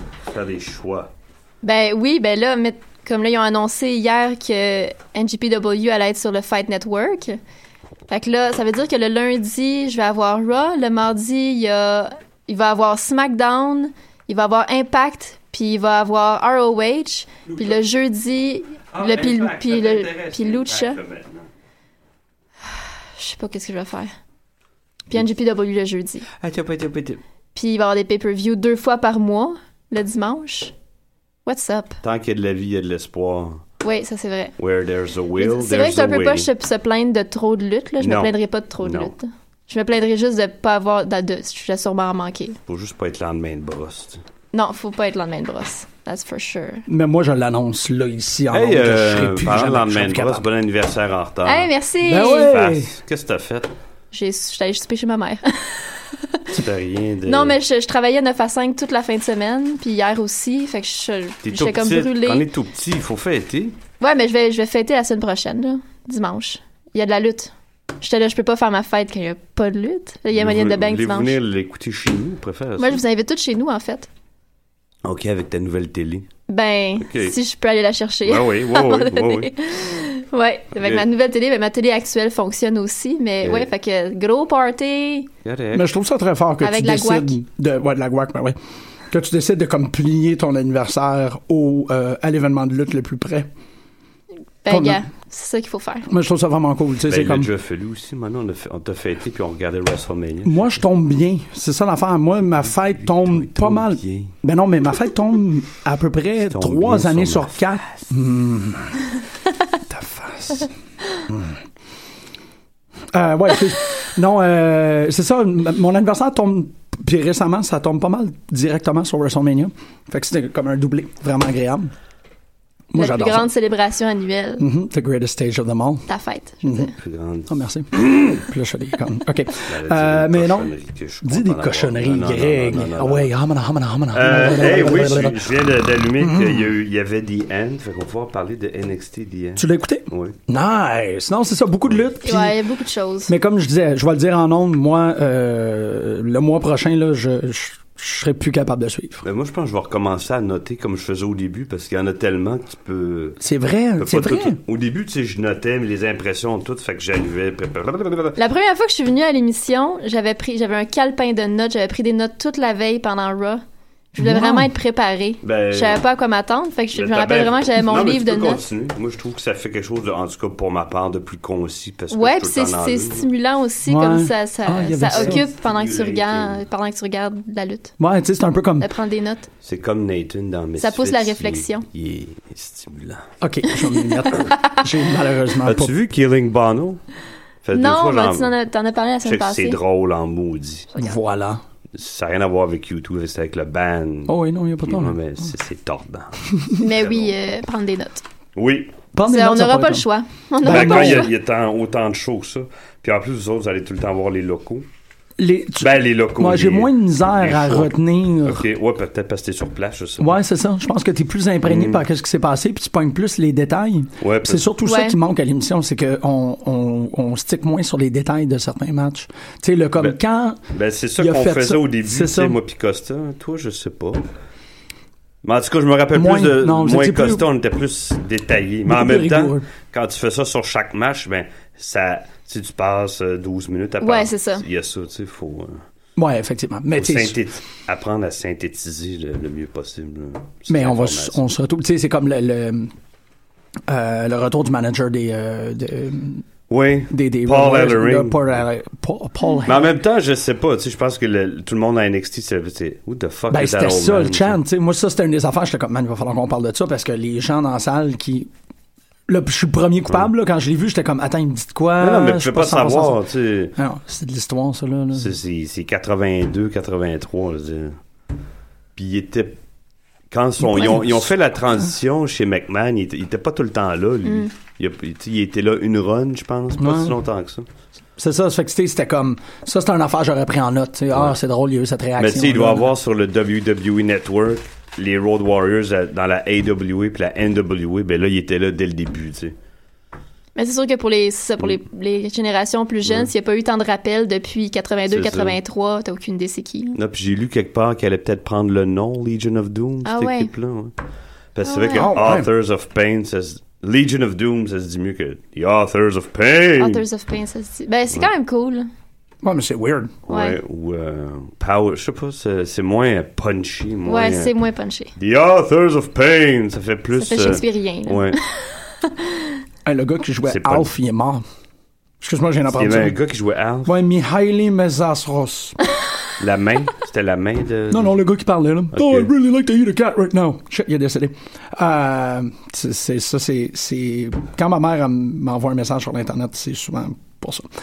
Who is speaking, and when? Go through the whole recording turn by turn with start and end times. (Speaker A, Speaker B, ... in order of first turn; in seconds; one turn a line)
Speaker A: 0.3-1.1
Speaker B: 1.6-7.4
Speaker B: 8.1-21.0
Speaker A: 17.5-17.8
Speaker A: 18.9-21.5
Speaker B: 23.2-24.1
Speaker B: 25.1-26.2
Speaker A: 26.4-27.2
Speaker B: 27.6-30.7
Speaker B: 31.5-32.0
Speaker A: 32.0-33.6
Speaker B: 33.8-34.5
Speaker A: 34.6-36.5
Speaker B: 35.4-42.6
Speaker A: 38.0-39.1
Speaker A: 42.7-44.2
Speaker B: 44.5-46.9
Speaker C: 46.9-50.5
Speaker A: 48.5-51.7
Speaker B: 51.5-52.5
Speaker C: 52.0-52.9
Speaker A: 52.5-53.7
Speaker B: 54.1-56.4
Speaker A: 56.5-57.6
Speaker B: 57.3-62.5
Speaker A: 61.4-63.8
Speaker B: 64.0-71.4
Speaker A: 70.3-73.0
Speaker B: 72.8-74.1
Speaker A: 75.0-76.3
Speaker B: 76.5-85.3
Speaker A: 77.0-77.4
Speaker A: 78.3-79.5
Speaker A: 85.5-85.9
Speaker C: 85.7-88.6
Speaker B: 86.6-87.4
Speaker C: 89.1-93.5
Speaker B: 94.6-96.1
Speaker C: 94.7-95.1
Speaker C: 96.1-97.5
Speaker A: 97.1-100.8
Speaker C: 100.5-109.0
Speaker A: 102.8-104.3
Speaker A: 106.5-107.6
Speaker C: 109.9-110.7
Speaker C: 111.3-111.6
Speaker C: 113.1-121.9
Speaker C: 122.9-123.5
Speaker B: 123.0-124.7
Speaker C: 124.6-126.1
Speaker B: 126.1-126.9
Speaker C: 126.6-126.9
Speaker A: 127.0-128.4
Speaker C: 127.5-130.7
Speaker A: 129.7-133.3
Speaker C: 131.2-135.6
Speaker A: 134.1-140.4
Speaker C: 136.2-136.7
Speaker C: 139.6-142.6
Speaker B: 142.2-143.3
Speaker C: 143.3-149.2
Speaker A: 149.2-153.4
Speaker C: 153.4-154.6
Speaker A: 154.0-158.4
Speaker B: 158.4-163.6
Speaker B: 164.1-168.6
Speaker C: 164.2-164.7
Speaker A: 165.4-166.0
Speaker A: 166.9-173.3
Speaker B: 172.1-177.9
Speaker C: 173.9-175.4
Speaker A: 175.1-176.6
Speaker C: 178.0-178.9
Speaker B: 178.8-179.5
Speaker A: 179.6-183.3
Speaker B: 180.8-181.8
Speaker C: 183.4-185.9
Speaker A: 185.6-187.0
Speaker A: 187.6-188.5
Speaker B: 187.7-189.8
Speaker A: 189.2-190.9
Speaker C: 191.0-191.6
Speaker A: 191.9-197.3
Speaker C: 194.3-195.5
Speaker B: 196.8-198.2
Speaker A: 198.6-198.9
Speaker C: 199.1-200.1
Speaker B: 199.3-201.3
Speaker C: 200.6-201.3
Speaker A: 200.7-204.9
Speaker C: 205.4-208.7
Speaker A: 205.8-210.4
Speaker C: 210.2-220.6
Speaker A: 211.7-212.0
Speaker A: 214.2-214.7
Speaker B: 214.8-215.2
Speaker A: 220.7-224.2
Speaker C: 221.2-222.6
Speaker A: 225.4-235.8
Speaker C: 226.1-227.5
Speaker C: 228.9-229.7
Speaker B: 234.0-234.7
Speaker C: 236.2-237.4
Speaker A: 237.0-241.4
Speaker C: 240.7-242.9
Speaker C: 243.9-246.4
Speaker A: 246.7-248.4
Speaker C: 247.1-249.9
Speaker A: 249.7-254.6
Speaker C: 253.5-258.5
Speaker C: 259.3-263.2
Speaker A: 262.0-263.7
Speaker C: 263.8-265.4
Speaker A: 265.1-268.0
Speaker A: 269.0-269.6
Speaker A: 270.3-277.7
Speaker C: 270.6-271.3
Speaker C: 276.8-277.2
Speaker C: 278.2-282.9
Speaker A: 282.2-289.6
Speaker B: 290.6-297.0
Speaker A: 293.1-293.3
Speaker A: 295.1-295.6
Speaker A: 296.9-300.9
Speaker B: 300.1-300.5
Speaker A: 301.6-307.0
Speaker B: 301.6-302.1
Speaker C: 301.9-302.5
Speaker B: 306.8-308.9
Speaker C: 309.4-310.2
Speaker A: 310.3-314.5
Speaker B: 310.3-310.6
Speaker B: 314.1-315.1
Speaker A: 315.2-318.4
Speaker B: 317.1-318.4
Speaker B: 319.0-319.4
Speaker C: 319.9-321.4
Speaker A: 320.4-320.9
Speaker C: 322.2-323.2
Speaker A: 322.7-323.9
Speaker C: 323.9-325.8
Speaker A: 326.4-328.1
Speaker C: 327.9-337.7
Speaker A: 328.9-329.3